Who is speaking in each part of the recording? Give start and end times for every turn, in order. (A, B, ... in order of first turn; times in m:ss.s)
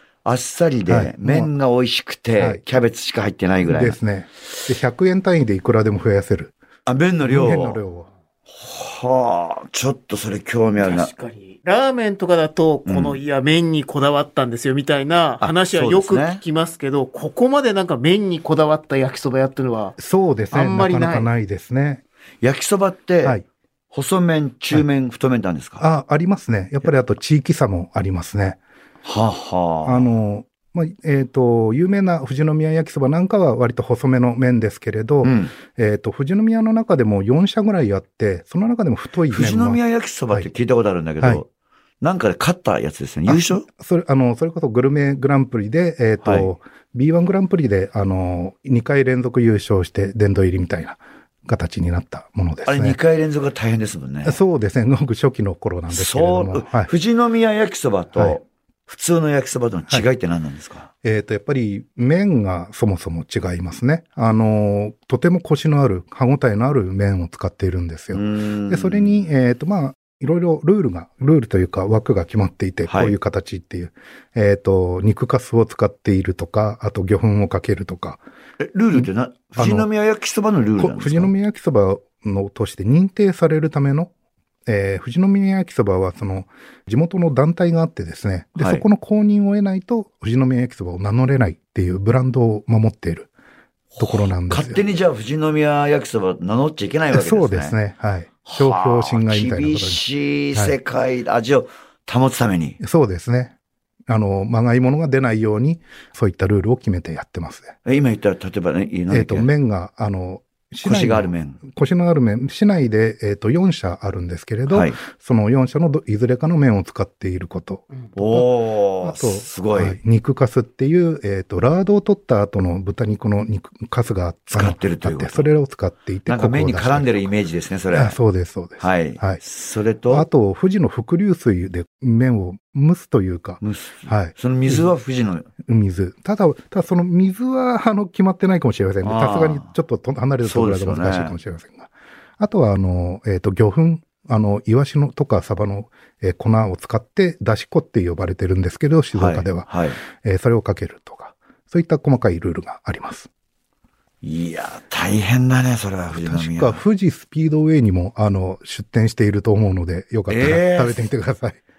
0:00.2-0:04.0 A
0:00.9-0:01.5 B
0:02.4-0:02.6 B
0:03.6-0:06.5 B
0:06.8-0:07.8 A
0:07.2-0:08.1 B
0:08.5-0:11.1 A
0:10.8-0:20.0 C
0:12.8-0:13.2 A
0:15.4-0:16.4 A
0:20.0-0:22.0 B
0:20.5-0:21.3 C
0:22.4-0:23.4 A
0:23.9-0:25.8 A
0:25.8-0:28.6 B
0:29.0-0:30.1 A
0:29.8-0:40.5 B
0:35.2-0:35.5 A
0:39.3-0:41.5 A
0:42.0-0:43.7 A
0:43.3-0:53.0 B
0:46.2-0:46.5 A
0:52.6-0:54.4 A
0:54.2-0:56.9 B
0:55.9-1:00.9 A
1:01.0-1:18.2 B
1:08.1-1:09.2 A
1:12.8-1:13.2 A
1:18.6-1:21.3 A
1:18.9-1:19.9 B
1:20.8-1:24.1 B
1:24.6-1:33.3 B
1:28.6-1:28.8 A
1:33.9-1:37.7 A
1:34.0-1:34.8 B
1:37.1-1:40.0 B
1:38.4-1:42.8 A
1:42.8-1:43.5 B
1:44.1-1:47.7 B
1:47.8-1:49.5 A
1:49.1-1:58.5 B
1:50.8-1:51.6 A
1:54.7-1:55.0 A
1:58.2-2:00.0 A
1:59.0-2:07.2 B
2:04.5-2:05.5 A
2:06.3-2:08.2 A
2:07.9-2:09.4 B
2:08.8-2:10.2 A
2:10.1-2:14.8 B
2:13.6-2:15.5 A
2:15.6-2:33.3 B
2:19.0-2:19.7 A
2:20.4-2:21.3 A
2:29.1-2:30.0 A
2:34.2-2:36.8 A
2:36.1-2:41.6 B
2:40.3-2:41.0 A